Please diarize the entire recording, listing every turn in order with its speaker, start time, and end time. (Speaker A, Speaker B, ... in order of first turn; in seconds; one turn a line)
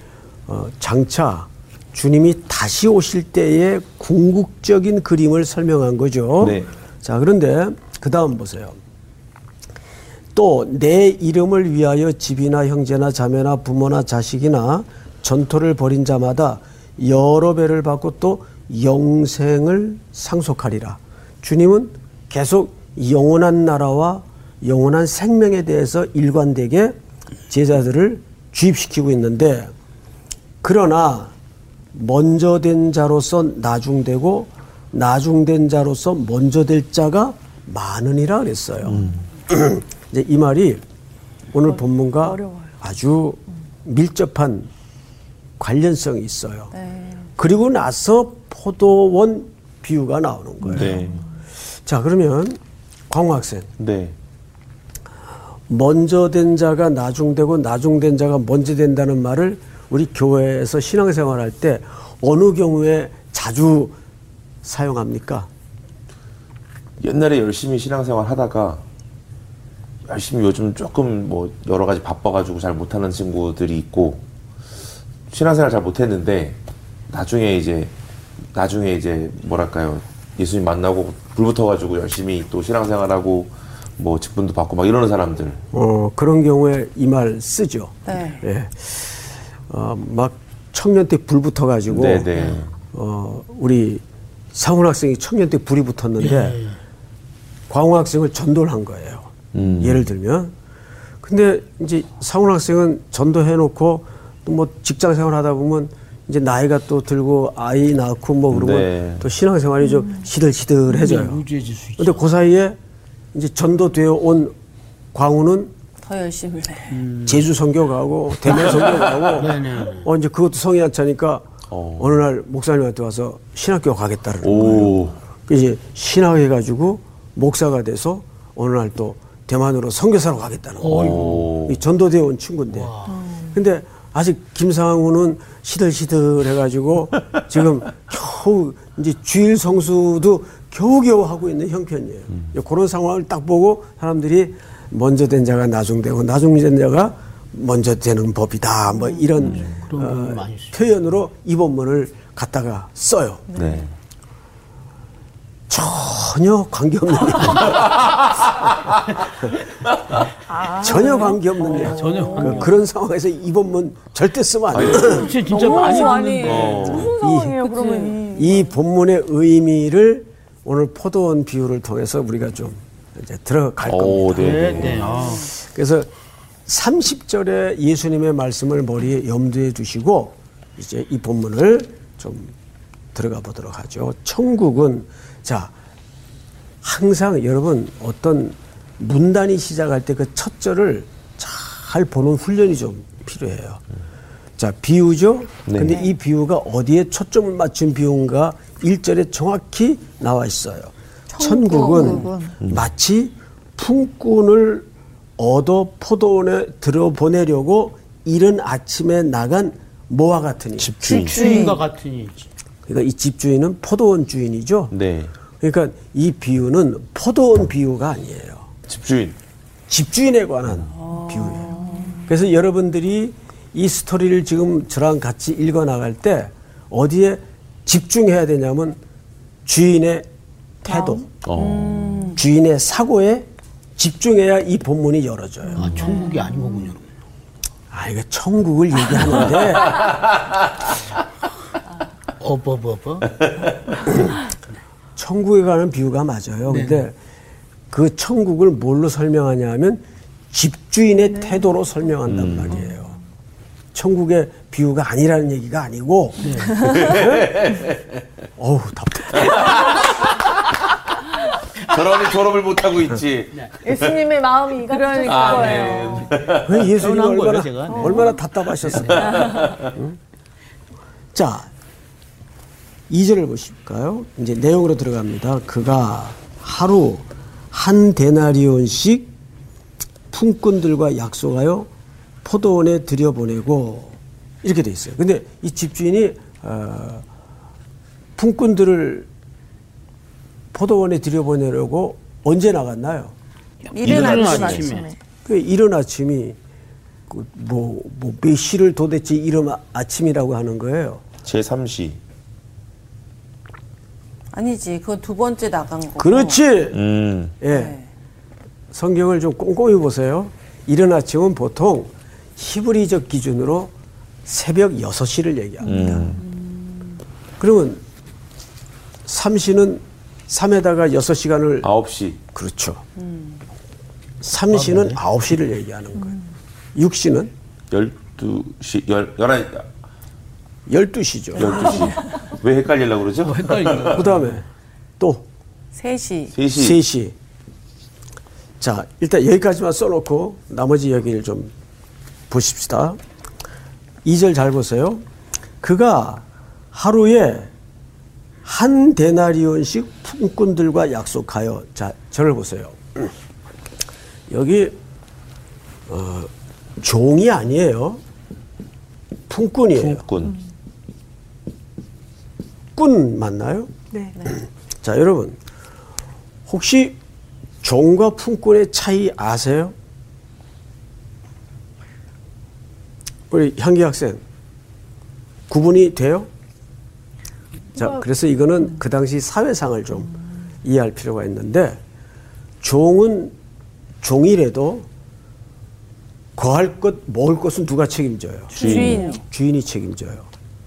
Speaker A: 0.5-8.8
Speaker B: 6.4-6.7
Speaker A: 10.3-27.0
Speaker A: 27.5-29.7
Speaker A: 30.6-31.3
Speaker A: 31.9-40.8
Speaker A: 41.5-44.7
Speaker C: 42.2-42.8
Speaker A: 45.6-46.7
Speaker D: 46.7-47.3
Speaker A: 47.4-51.0
Speaker B: 50.7-51.2
Speaker E: 50.7-51.0
Speaker A: 51.9-52.6
Speaker A: 53.1-53.7
Speaker B: 53.8-54.1
Speaker A: 55.7-64.0
Speaker A: 64.6-65.5
Speaker B: 67.0-68.8
Speaker B: 70.0-74.2
Speaker B: 75.3-76.6
Speaker B: 77.1-77.9
Speaker B: 78.5-85.6
Speaker A: 85.7-92.3
Speaker D: 88.1-88.4
Speaker B: 91.9-92.7
Speaker E: 92.3-92.6
Speaker A: 92.9-94.0
Speaker A: 94.5-96.6
Speaker E: 96.2-96.8
Speaker A: 97.7-100.5
Speaker B: 99.5-100.1
Speaker A: 101.2-111.4
Speaker B: 108.5-109.3
Speaker E: 110.9-112.3
Speaker A: 112.0-112.8
Speaker A: 113.3-114.5
Speaker A: 115.1-115.7
Speaker D: 116.0-117.0
Speaker E: 116.9-117.5
Speaker A: 117.2-121.5
Speaker E: 118.5-120.1
Speaker B: 121.7-122.2
Speaker A: 122.0-132.9
Speaker B: 124.4-125.2
Speaker E: 130.8-131.6
Speaker B: 130.9-131.8
Speaker E: 132.7-133.2
Speaker C: 133.1-133.6
Speaker A: 133.5-153.5
Speaker C: 149.1-149.5
Speaker E: 149.4-150.8
Speaker C: 153.5-153.8
Speaker B: 153.5-153.9
Speaker A: 155.7-157.8
Speaker C: 160.5-162.5
Speaker A: 160.8-165.3
Speaker E: 161.7-162.8
Speaker D: 162.1-162.7
Speaker B: 164.7-165.3
Speaker E: 164.8-167.1
Speaker D: 165.3-167.1
Speaker C: 165.5-168.7
Speaker B: 166.4-167.1
Speaker A: 167.0-167.6
Speaker D: 167.6-168.3
Speaker A: 168.3-176.1
Speaker B: 173.9-175.2
Speaker E: 174.4-175.5
Speaker A: 176.7-182.6
Speaker A: 183.2-185.7
Speaker A: 186.8-193.8
Speaker A: 194.6-204.9
Speaker B: 195.7-196.0
Speaker C: 201.4-202.6
Speaker D: 201.6-202.3
Speaker B: 202.6-202.9
Speaker A: 205.4-210.9
Speaker B: 210.8-211.6
Speaker E: 211.0-212.5
Speaker D: 211.0-211.8
Speaker A: 212.9-214.9
Speaker B: 214.9-215.3
Speaker A: 215.6-218.7
Speaker B: 218.9-219.4
Speaker A: 219.9-229.0
Speaker D: 221.0-222.2
Speaker C: 221.9-222.2
Speaker A: 229.7-230.3
Speaker A: 230.8-231.3
Speaker C: 230.9-231.2
Speaker B: 231.4-232.0
Speaker D: 231.6-232.4
Speaker A: 232.3-236.0
Speaker E: 235.8-237.1
Speaker C: 235.9-236.4
Speaker A: 237.9-240.0
Speaker B: 239.9-240.2
Speaker E: 242.4-243.3
Speaker A: 245.2-247.2
Speaker E: 246.7-247.0
Speaker A: 247.9-253.2
Speaker C: 251.3-251.6
Speaker B: 252.3-252.9
Speaker A: 253.9-257.6
Speaker E: 256.4-256.9
Speaker B: 256.8-258.2
Speaker A: 258.6-259.9
Speaker B: 259.4-260.6
Speaker B: 261.7-264.2
Speaker C: 263.8-266.3
Speaker D: 264.9-266.3
Speaker B: 265.2-266.9
Speaker A: 266.6-270.2
Speaker E: 266.9-268.3
Speaker C: 267.9-268.3
Speaker B: 268.9-269.9
Speaker A: 271.3-271.7
Speaker A: 273.1-279.3
Speaker A: 280.3-281.9
Speaker A: 282.4-287.2
Speaker A: 288.4-289.3
Speaker A: 290.7-293.4
Speaker E: 293.9-295.1
Speaker D: 293.9-295.0
Speaker B: 294.0-294.8
Speaker C: 294.4-295.2
Speaker A: 295.4-296.6
Speaker A: 297.3-301.2
Speaker B: 301.4-302.2
Speaker D: 304.5-306.6
Speaker A: 306.2-307.0
Speaker B: 306.9-307.6
Speaker A: 307.6-308.0
Speaker D: 307.7-308.1
Speaker A: 308.9-313.9
Speaker A: 314.5-316.2
Speaker B: 315.9-316.4
Speaker C: 315.9-316.4
Speaker D: 316.3-317.0
Speaker A: 317.6-318.0
Speaker A: 319.3-321.9
Speaker B: 321.8-322.4
Speaker A: 322.5-323.0
Speaker D: 323.2-323.6
Speaker A: 324.4-326.4
Speaker E: 324.7-325.2
Speaker A: 326.9-327.5
Speaker B: 327.9-329.9
Speaker A: 330.9-332.0
Speaker B: 331.6-334.2
Speaker E: 333.4-334.6
Speaker A: 334.1-334.6
Speaker A: 335.2-335.4
Speaker D: 335.9-336.5
Speaker B: 336.5-337.0
Speaker A: 336.7-337.4
Speaker A: 338.8-341.7
Speaker A: 342.5-343.2
Speaker A: 344.2-345.2
Speaker A: 345.8-347.7
Speaker A: 348.6-353.3
Speaker A: 354.5-355.0
Speaker A: 356.1-356.5
Speaker A: 357.0-358.2
Speaker A: 359.5-360.2
Speaker B: 359.9-360.6
Speaker A: 363.0-363.9
Speaker C: 364.1-364.4
Speaker A: 364.5-365.6
Speaker A: 366.7-367.2
Speaker A: 367.8-369.9
Speaker A: 373.5-374.4
Speaker A: 375.7-376.5
Speaker A: 377.9-380.3
Speaker A: 380.8-382.0
Speaker A: 382.8-383.5
Speaker A: 384.2-385.1
Speaker A: 386.6-390.5
Speaker D: 388.7-389.4
Speaker B: 388.8-389.2
Speaker E: 388.8-389.2